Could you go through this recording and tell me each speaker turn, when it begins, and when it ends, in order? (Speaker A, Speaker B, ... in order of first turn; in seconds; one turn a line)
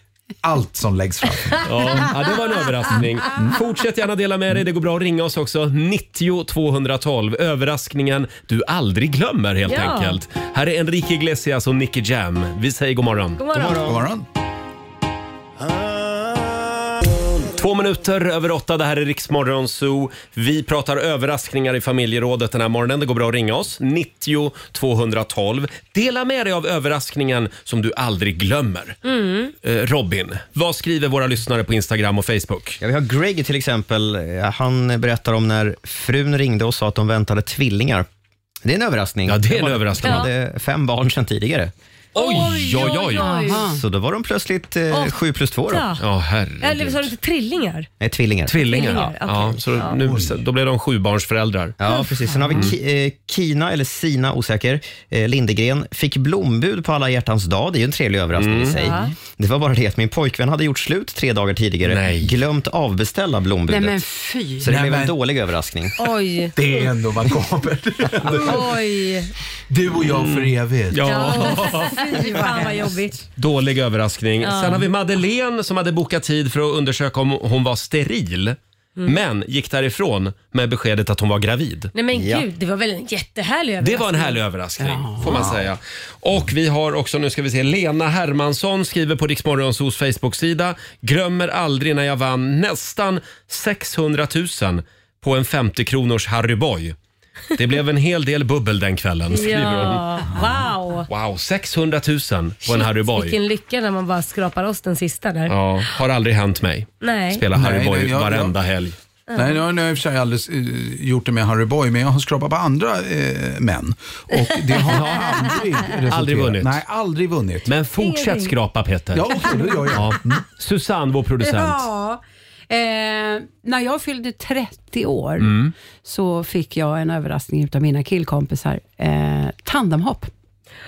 Speaker A: 0.4-1.7
Speaker B: 1.6-13.4
Speaker C: 1.8-2.1
Speaker C: 9.7-10.2
Speaker C: 13.4-13.9
Speaker D: 13.5-14.0
Speaker A: 13.8-14.2
Speaker B: 17.6-29.0
Speaker C: 29.0-29.5
Speaker B: 29.6-32.8
Speaker D: 32.8-38.1
Speaker D: 38.6-41.7
Speaker B: 39.3-40.3
Speaker B: 42.1-43.4
Speaker C: 42.1-43.6
Speaker E: 43.1-43.8
Speaker D: 43.7-45.9
Speaker C: 44.9-45.2
Speaker C: 45.7-46.0
Speaker B: 46.0-47.1
Speaker C: 46.6-47.9
Speaker D: 48.0-48.5
Speaker B: 48.5-51.8
Speaker C: 48.6-50.0
Speaker A: 50.0-50.4
Speaker D: 51.8-64.0
Speaker E: 52.2-52.5
Speaker B: 58.4-58.8
Speaker C: 58.8-59.1
Speaker B: 61.9-62.3
Speaker E: 63.7-64.7
Speaker D: 64.6-65.9
Speaker A: 64.7-65.2
Speaker C: 66.0-66.8
Speaker A: 66.5-68.8
Speaker C: 68.3-69.3
Speaker A: 69.7-71.0
Speaker B: 70.0-72.2
Speaker C: 71.0-73.2
Speaker E: 71.1-73.1
Speaker B: 73.4-81.9
Speaker C: 74.4-74.9
Speaker C: 81.9-84.4
Speaker D: 82.1-82.5
Speaker B: 83.8-97.0
Speaker E: 84.8-85.5
Speaker A: 85.3-85.6
Speaker B: 97.5-100.2
Speaker C: 99.3-101.1
Speaker B: 101.1-103.4
Speaker C: 102.7-105.5
Speaker B: 105.5-109.0
Speaker C: 107.0-107.4
Speaker A: 107.5-108.5
Speaker C: 109.3-109.6
Speaker A: 109.3-117.7
Speaker B: 114.8-116.8
Speaker B: 117.7-121.9
Speaker C: 118.0-118.5
Speaker A: 119.1-120.4
Speaker E: 121.4-130.3
Speaker B: 125.4-125.7